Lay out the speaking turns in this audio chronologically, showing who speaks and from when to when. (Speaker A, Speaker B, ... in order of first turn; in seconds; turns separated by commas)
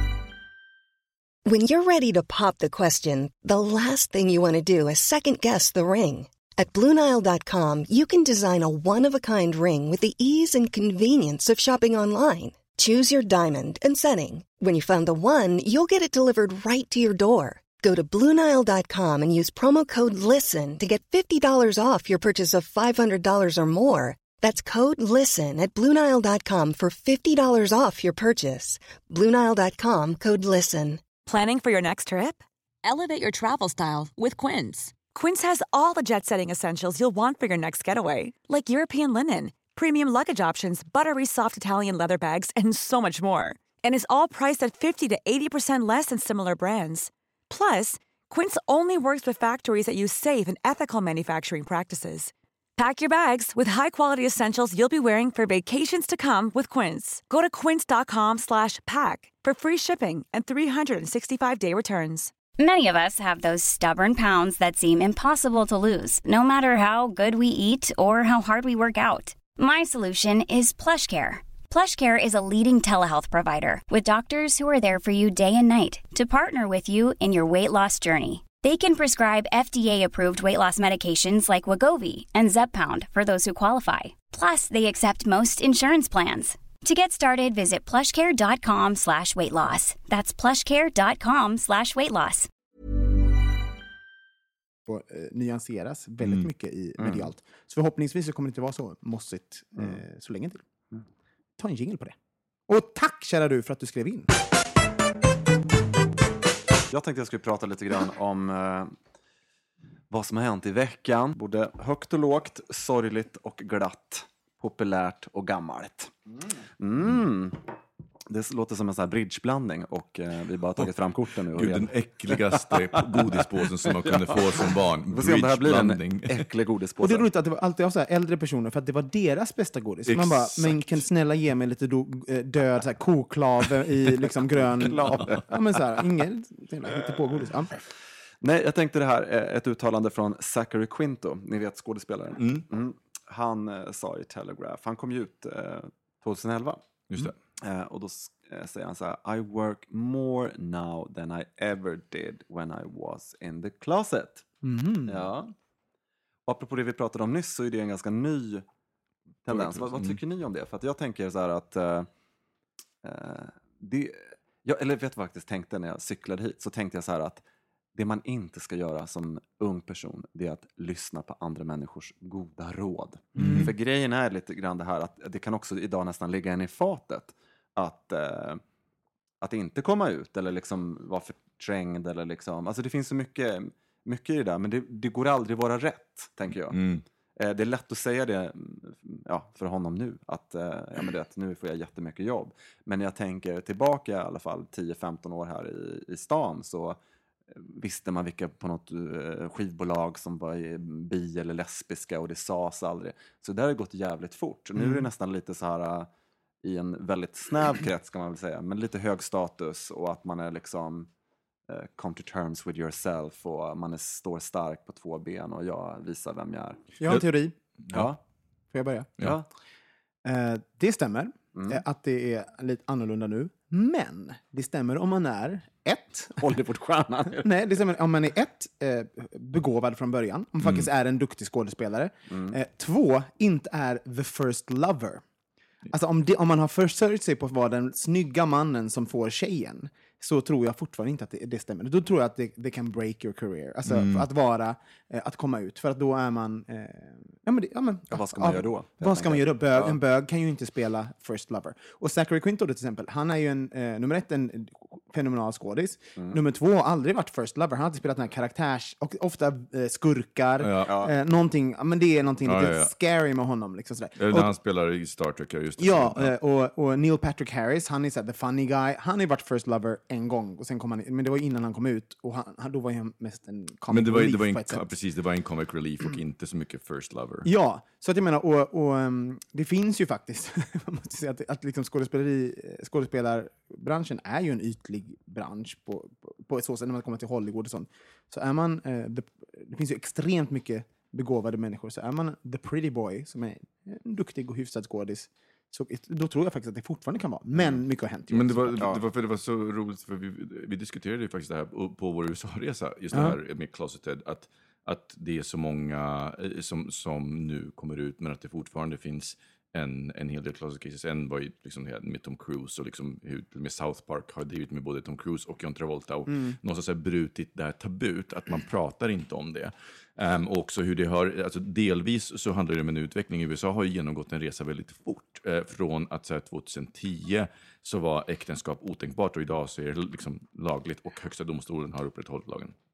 Speaker A: 1.5-31.1, Speaker B: 31.2-62.3, Speaker C: 62.6-92.5, Speaker D: 94.9-100.6, Speaker E: 96.2-96.5, Speaker F: 97.0-97.3, Speaker D: 101.6-102.2, Speaker D: 102.7-104.3, Speaker F: 106.9-109.0, Speaker F: 110.1-116.2, Speaker F: 116.8-117.6, Speaker F: 118.3-127.3, Speaker E: 121.5-126.5, Speaker D: 127.0-137.8, Speaker E: 130.1-131.0, Speaker F: 134.8-135.4, Speaker F: 138.4-146.8, Speaker E: 142.4-142.7, Speaker F: 147.6-154.5, Speaker D: 154.6-155.2, Speaker F: 155.1-155.5, Speaker F: 156.5-158.7, Speaker F: 159.4-162.1, Speaker E: 159.5-160.2, Speaker F: 163.0-167.4, Speaker F: 167.9-178.6, Speaker D: 173.4-173.7, Speaker E: 173.4-173.7, Speaker F: 179.4-186.8, Speaker E: 186.7-187.0, Speaker F: 187.4-197.0, Speaker F: 197.5-206.1, Speaker D: 204.8-205.1, Speaker F: 206.6-211.1, Speaker F: 211.7-216.8, Speaker D: 217.0-217.6, Speaker F: 217.9-218.2, Speaker D: 218.7-219.1, Speaker F: 219.2-219.5, Speaker D: 220.2-226.4, Speaker F: 221.5-221.8, Speaker F: 226.4-227.5, Speaker D: 227.4-235.2, Speaker E: 230.6-230.9, Speaker F: 232.3-232.6, Speaker D: 235.9-264.5, Speaker E: 243.9-244.3, Speaker F: 248.1-250.0, Speaker E: 260.6-260.9, Speaker F: 260.9-261.1, Speaker E: 262.4-262.9, Speaker E: 264.2-266.3, Speaker D: 265.8-274.9, Speaker E: 273.9-277.5, Speaker D: 277.4-298.9, Speaker E: 298.3-332.8, Speaker D: 316.3-316.6